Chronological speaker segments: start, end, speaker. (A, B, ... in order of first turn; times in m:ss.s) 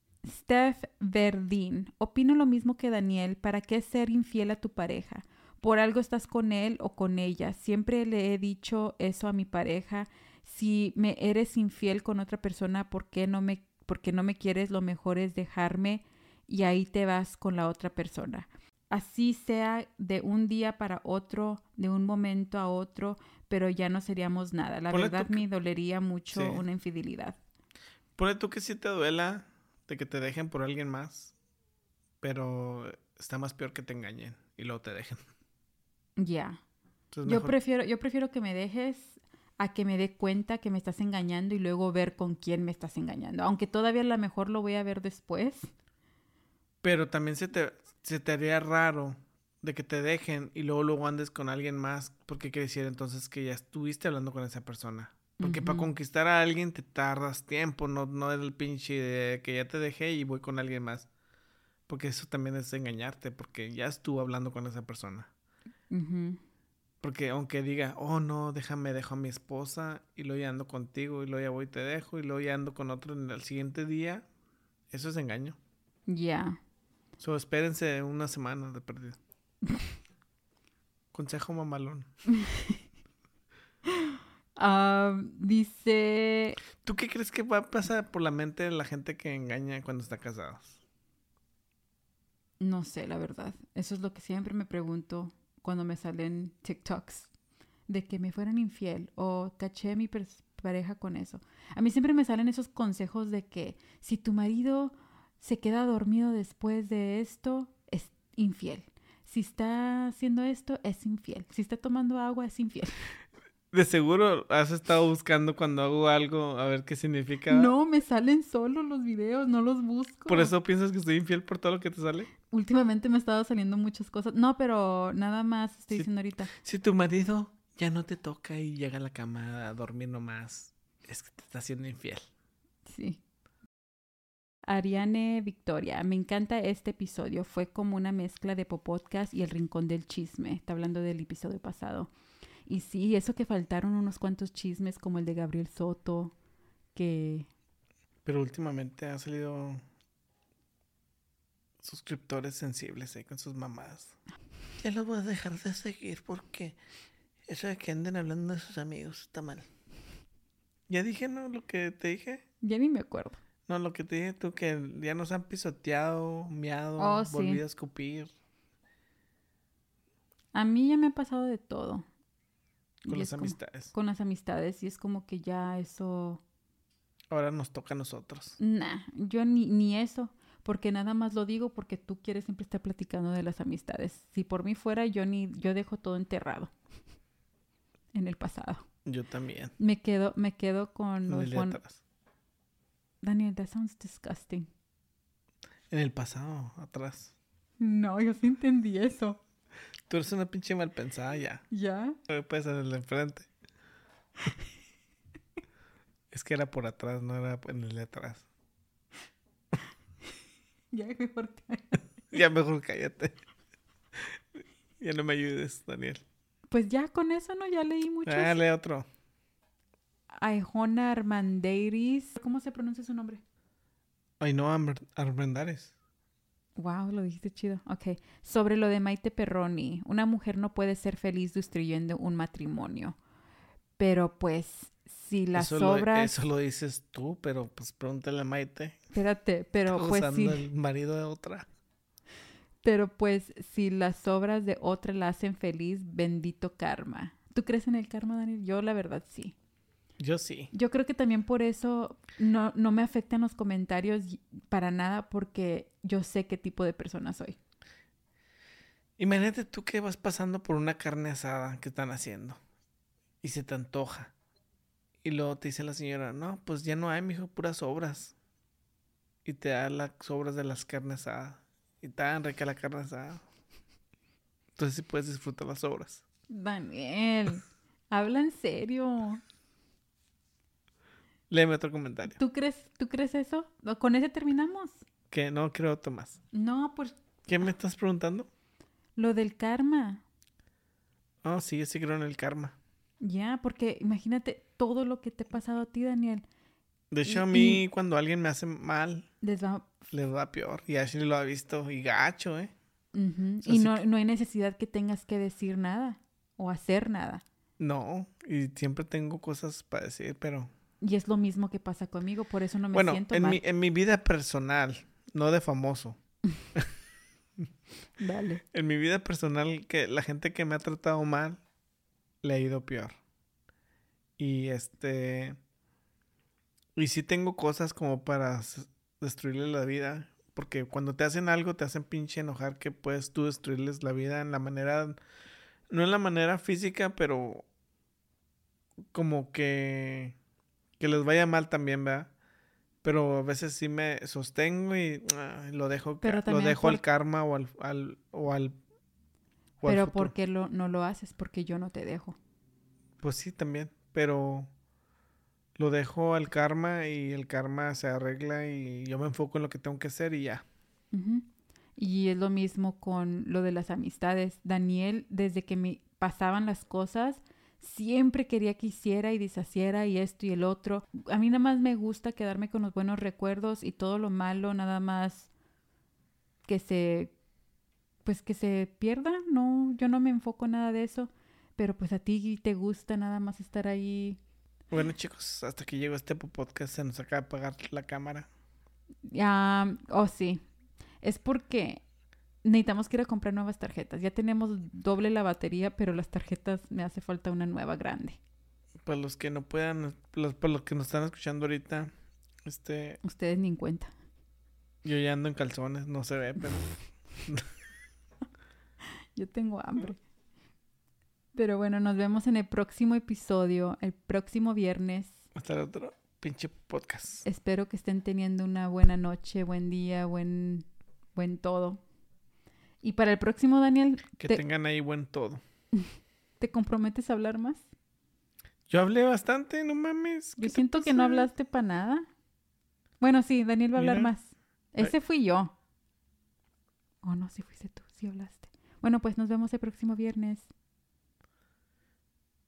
0:00.2-0:27.4 A
0:24.9-0:25.4 B
0:26.3-0:26.6 B
0:28.2-0:31.3 B
0:32.2-0:35.2 B
0:36.2-0:36.6 A
0:37.1-0:37.5 B
0:37.2-0:45.7 A
0:46.8-1:01.1 B
0:55.4-0:55.9 A
1:01.9-1:05.3 B
1:05.9-1:06.4 A
1:07.0-1:14.3 B
1:14.9-1:15.6 B
1:16.1-1:16.6 A
1:17.2-1:19.2 B
1:21.1-1:22.1 B
1:22.3-1:22.8 A
1:23.9-1:26.6 A
1:26.8-1:30.8 B
1:32.6-1:37.3 A
1:37.9-1:52.9 A
1:53.7-1:57.7 B
1:57.5-2:00.5 A
2:00.3-2:02.3 B
2:02.5-2:06.5 A
2:05.9-2:12.3 B
2:12.9-2:13.2 A
2:14.6-2:22.1 A
2:22.7-2:26.3 A
2:27.0-2:27.5 A
2:28.2-2:29.8 B
2:31.8-2:34.2 B
2:34.8-2:36.8 B
2:37.5-2:39.7 B
2:40.9-2:42.4 B
2:42.6-2:43.4 A
2:43.7-2:48.3 B
2:47.0-2:47.6 A
2:50.5-2:52.0 A
2:53.1-2:56.4 A
2:53.1-2:53.9 B
2:57.3-2:58.6 B
2:58.6-3:06.7 A
3:08.1-3:08.9 A
3:09.0-3:09.8 B
3:09.8-3:11.8 A
3:11.3-3:12.0 B
3:13.2-3:14.7 A
3:15.9-3:17.3 B
3:17.8-3:19.4 A
3:20.1-3:21.6 B
3:21.7-3:22.2 A
3:22.3-3:23.5 B
3:26.3-3:28.5 B
3:30.9-3:32.1 A
3:32.3-3:33.4 B
3:34.2-3:36.2 B
3:36.7-3:38.6 A
3:38.2-3:39.1 B
3:40.3-3:43.4 A
3:44.4-3:45.9 B
3:46.8-3:53.2 A
3:54.0-3:56.4 A
3:55.6-3:59.0 B
3:59.1-4:00.6 A
3:59.9-4:01.7 B
4:02.8-4:09.6 A
4:10.2-4:10.7 B
4:10.7-4:17.6 A
4:19.2-4:22.6 B
4:23.4-4:24.3 B
4:25.2-4:28.3 B
4:29.4-4:33.4 B
4:34.8-4:36.2 B
4:36.5-4:39.4 A
4:41.5-4:42.4 B
4:42.3-4:45.0 A
4:45.3-4:46.4 B
4:46.5-4:47.2 A
4:47.5-4:48.5 B
4:49.2-4:50.2 A
4:51.4-4:52.8 B
4:53.2-4:56.4 A
4:57.1-4:59.3 B
4:57.2-4:57.8 A
4:59.4-4:59.9 A
5:00.1-5:02.7 B
5:03.1-5:07.4 A
5:03.6-5:04.0 B
5:07.8-5:10.7 B
5:11.0-5:13.6 A
5:12.9-5:16.2 B
5:18.2-5:18.6 A
5:18.7-5:21.6 B
5:22.4-5:23.2 B
5:24.4-5:25.6 B
5:27.0-5:35.2 B
5:35.9-5:37.6 B
5:39.1-5:40.4 B
5:41.0-5:42.3 B
5:43.0-5:48.8 B
5:46.2-5:47.0 A
5:49.8-5:50.3 B
5:49.8-5:52.4 A
5:53.2-5:54.7 B
5:55.8-6:00.6 B
6:01.1-6:01.5 A
6:02.0-6:15.5 A
6:16.7-6:17.3 A
6:18.2-6:24.4 A
6:24.9-6:28.5 B
6:29.3-6:30.6 A
6:31.2-6:32.0 A
6:32.6-6:38.4 A
6:39.0-6:42.1 B
6:42.6-6:43.2 B
6:43.2-6:44.1 A
6:45.0-6:47.7 B
6:49.4-6:50.2 A
6:51.5-6:55.4 A
6:55.5-6:57.4 B
6:57.4-7:02.0 A
7:03.0-7:04.6 A
7:04.4-7:05.6 B
7:06.6-7:07.8 A
7:08.9-7:11.5 B
7:10.6-7:12.3 A
7:13.2-7:15.7 A
7:14.0-7:14.3 B
7:17.2-7:20.7 A